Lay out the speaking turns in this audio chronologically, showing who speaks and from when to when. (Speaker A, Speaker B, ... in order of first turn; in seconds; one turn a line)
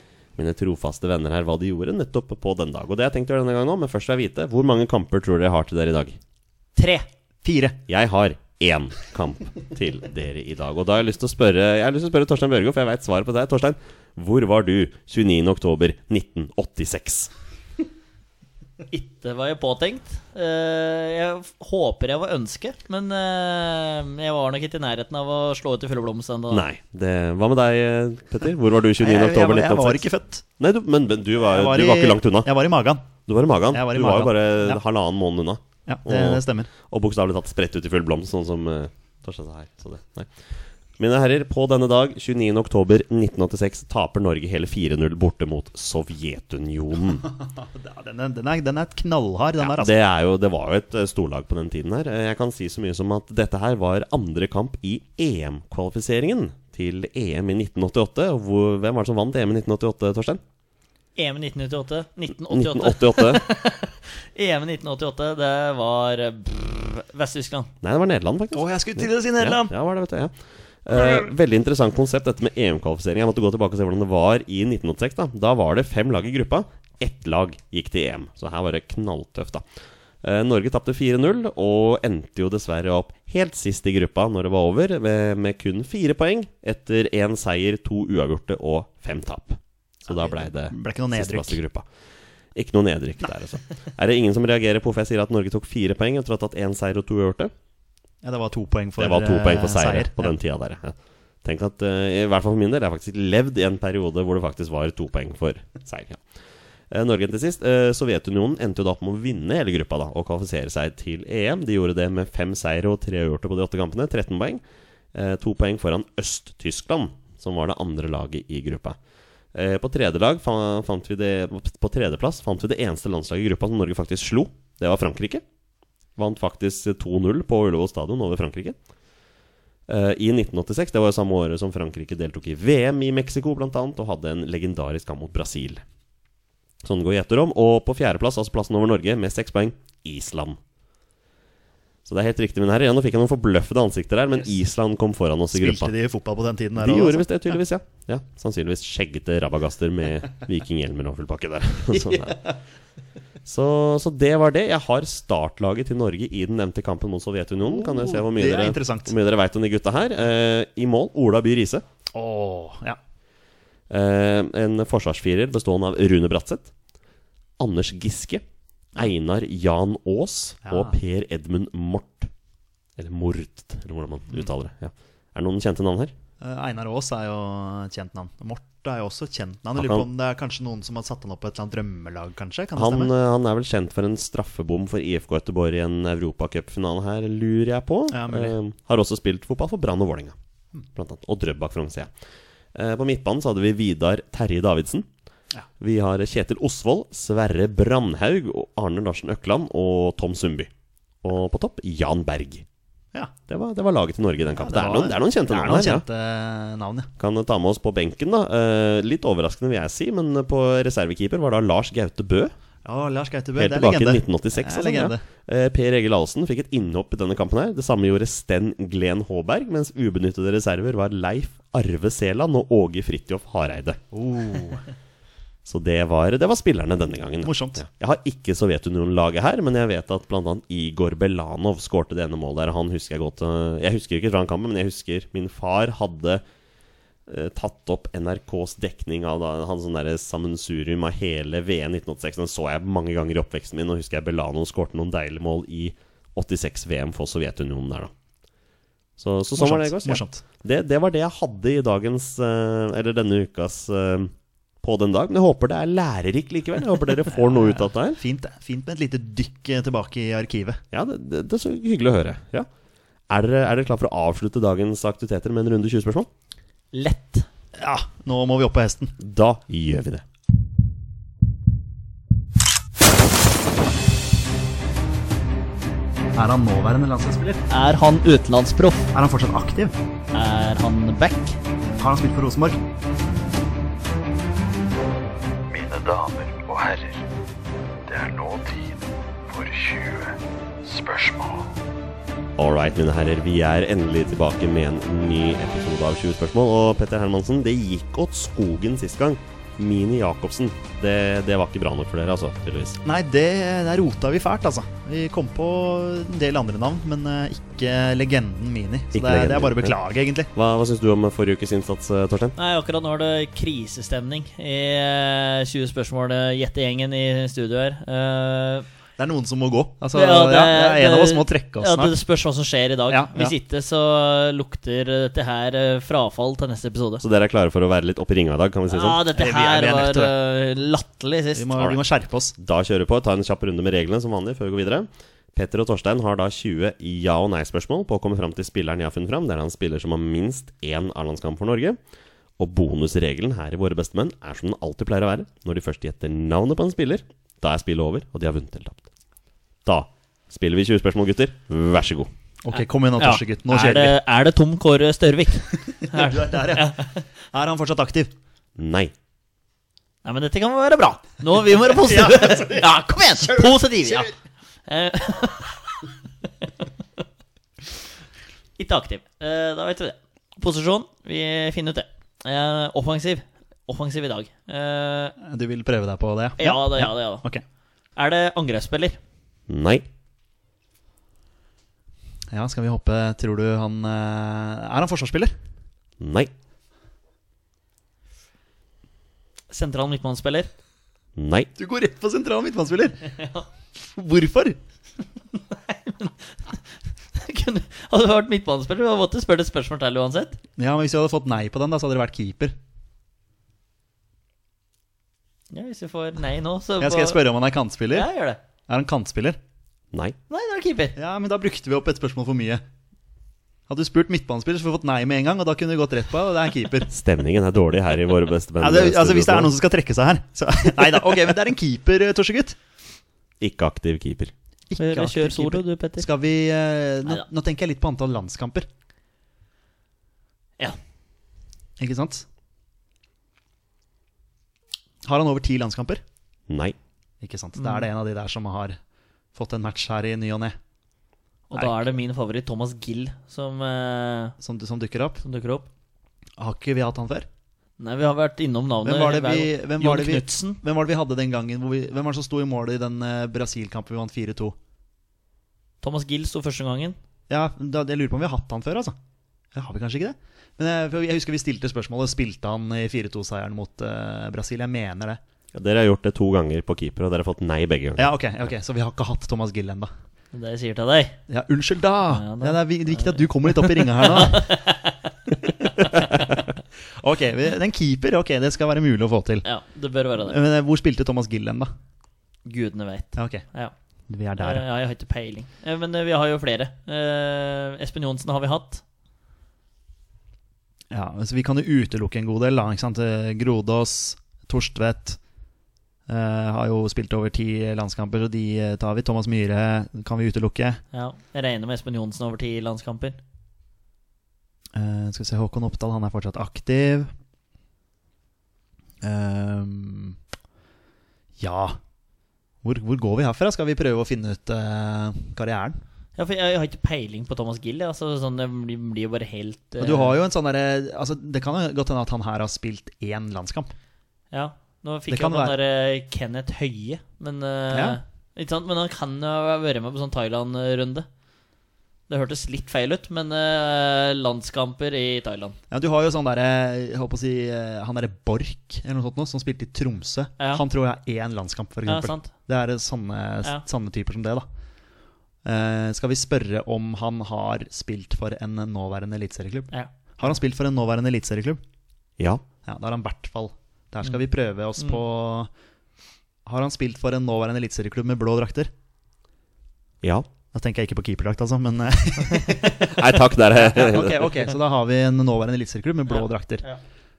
Speaker A: 0.4-6.2
Speaker B: 6.8-7.1
Speaker C: 7.4-7.8
Speaker A: 7.9-17.3
Speaker B: 18.9-26.6
Speaker A: 26.5-30.1
Speaker C: 29.0-30.4
Speaker A: 30.6-32.5
Speaker C: 31.5-33.1
Speaker A: 33.3-40.3
Speaker C: 33.7-34.8
Speaker C: 35.9-36.7
Speaker A: 41.0-47.3
Speaker C: 47.6-50.0
Speaker A: 49.6-60.4
Speaker B: 61.2-67.7
Speaker A: 62.5-63.5
Speaker A: 67.8-79.6
Speaker C: 68.5-69.8
Speaker C: 70.9-71.2
Speaker A: 80.2-91.9
Speaker C: 90.1-91.6
Speaker A: 92.5-97.5
Speaker C: 98.2-100.3
Speaker A: 99.0-106.2
Speaker A: 106.9-114.6
Speaker A: 115.1-119.0
Speaker A: 119.5-125.4
Speaker A: 126.2-128.8
Speaker A: 129.9-135.8
Speaker A: 136.8-140.6
Speaker A: 142.1-145.9
Speaker C: 145.5-147.3
Speaker A: 146.8-152.4
Speaker C: 151.9-152.6
Speaker A: 153.4-161.8
Speaker C: 157.7-159.1
Speaker C: 162.1-163.0
Speaker A: 163.9-166.7
Speaker A: 167.6-168.4
Speaker A: 169.0-172.3
Speaker C: 170.7-171.0
Speaker A: 173.0-176.1
Speaker C: 176.4-183.1
Speaker A: 179.8-180.1
Speaker A: 182.8-190.4
Speaker C: 188.1-188.6
Speaker A: 190.9-192.1
Speaker A: 192.7-195.1
Speaker A: 195.8-200.7
Speaker A: 201.2-202.7
Speaker A: 203.5-206.1
Speaker C: 204.6-207.1
Speaker A: 207.2-212.5
Speaker C: 212.8-215.2
Speaker A: 213.6-224.0
Speaker C: 224.1-224.8
Speaker A: 225.7-236.4
Speaker C: 227.4-227.8
Speaker A: 237.3-248.1
Speaker A: 249.2-258.2
Speaker C: 249.6-250.4
Speaker C: 257.4-260.8
Speaker A: 260.9-262.7
Speaker A: 263.3-266.3
Speaker B: 266.9-267.5
Speaker C: 267.8-269.1
Speaker A: 269.2-270.2
Speaker C: 276.4-277.6
Speaker B: 277.7-279.1
Speaker C: 279.1-279.9
Speaker B: 280.3-281.6
Speaker C: 282.0-282.8
Speaker D: 285.7-287.2
Speaker D: 288.1-291.8
Speaker A: 292.6-303.0
Speaker C: 303.1-310.5
Speaker A: 309.1-309.9
Speaker A: 310.5-312.6
Speaker B: 312.6-318.9
Speaker C: 319.2-322.1
Speaker B: 320.1-327.2
Speaker C: 323.1-323.5
Speaker A: 327.2-329.2
Speaker B: 328.9-331.7
Speaker C: 329.4-330.3
Speaker C: 331.6-332.6
Speaker A: 332.6-342.0
Speaker A: 342.6-349.0
Speaker A: 349.9-352.3
Speaker C: 352.6-354.2
Speaker B: 352.7-357.2
Speaker C: 356.0-357.0
Speaker C: 357.5-358.3
Speaker A: 358.8-359.1
Speaker B: 360.2-364.3
Speaker C: 361.8-364.3
Speaker B: 364.9-366.0
Speaker B: 368.8-375.4
Speaker C: 375.4-377.6
Speaker B: 376.6-377.4
Speaker B: 378.2-379.2
Speaker A: 379.7-380.0
Speaker C: 382.5-385.5
Speaker A: 386.2-386.5
Speaker B: 389.7-390.7
Speaker A: 391.4-391.7
Speaker C: 391.8-393.4
Speaker C: 394.0-394.8
Speaker B: 395.6-396.8
Speaker B: 397.3-400.6
Speaker C: 400.8-402.8
Speaker B: 405.7-407.4
Speaker C: 407.0-408.3
Speaker B: 408.1-408.6
Speaker C: 408.9-409.6
Speaker B: 410.5-411.2
Speaker C: 411.2-412.8
Speaker C: 413.9-417.1
Speaker A: 417.1-419.7
Speaker C: 418.8-422.8
Speaker A: 423.6-424.5
Speaker C: 424.9-428.9
Speaker B: 425.0-426.3
Speaker C: 432.0-432.4
Speaker C: 435.2-436.2
Speaker A: 436.7-437.0
Speaker C: 437.4-439.0
Speaker B: 437.8-438.1
Speaker C: 439.6-440.8
Speaker B: 441.7-444.6
Speaker C: 441.7-442.1
Speaker C: 444.6-445.4
Speaker B: 445.4-445.9
Speaker C: 446.6-447.5
Speaker B: 448.0-450.8
Speaker C: 449.0-454.8
Speaker B: 456.0-457.2
Speaker C: 457.5-459.2
Speaker C: 459.7-465.4
Speaker A: 465.7-468.3
Speaker C: 468.2-470.1
Speaker B: 470.5-471.4
Speaker C: 471.5-474.7
Speaker B: 472.3-475.3
Speaker B: 476.0-476.3
Speaker C: 476.1-476.6
Speaker C: 477.2-479.7
Speaker B: 479.6-480.6
Speaker C: 480.4-481.9
Speaker B: 482.7-483.9
Speaker C: 483.4-483.6
Speaker C: 484.3-484.9
Speaker B: 484.6-489.0
Speaker C: 491.1-495.4
Speaker C: 496.3-501.0
Speaker B: 501.1-503.4
Speaker C: 504.9-507.3
Speaker C: 509.2-510.4
Speaker C: 511.6-512.0
Speaker C: 512.8-516.0
Speaker B: 516.4-520.4
Speaker C: 520.0-523.9
Speaker B: 524.5-531.3
Speaker C: 525.3-525.8
Speaker C: 527.9-528.2
Speaker B: 532.3-535.8
Speaker C: 535.9-544.7
Speaker B: 542.1-542.5
Speaker C: 545.6-551.8
Speaker B: 549.9-550.5
Speaker C: 552.9-555.7
Speaker C: 556.7-558.9
Speaker A: 560.2-560.5
Speaker C: 560.7-566.9
Speaker A: 563.1-564.5
Speaker B: 566.3-567.0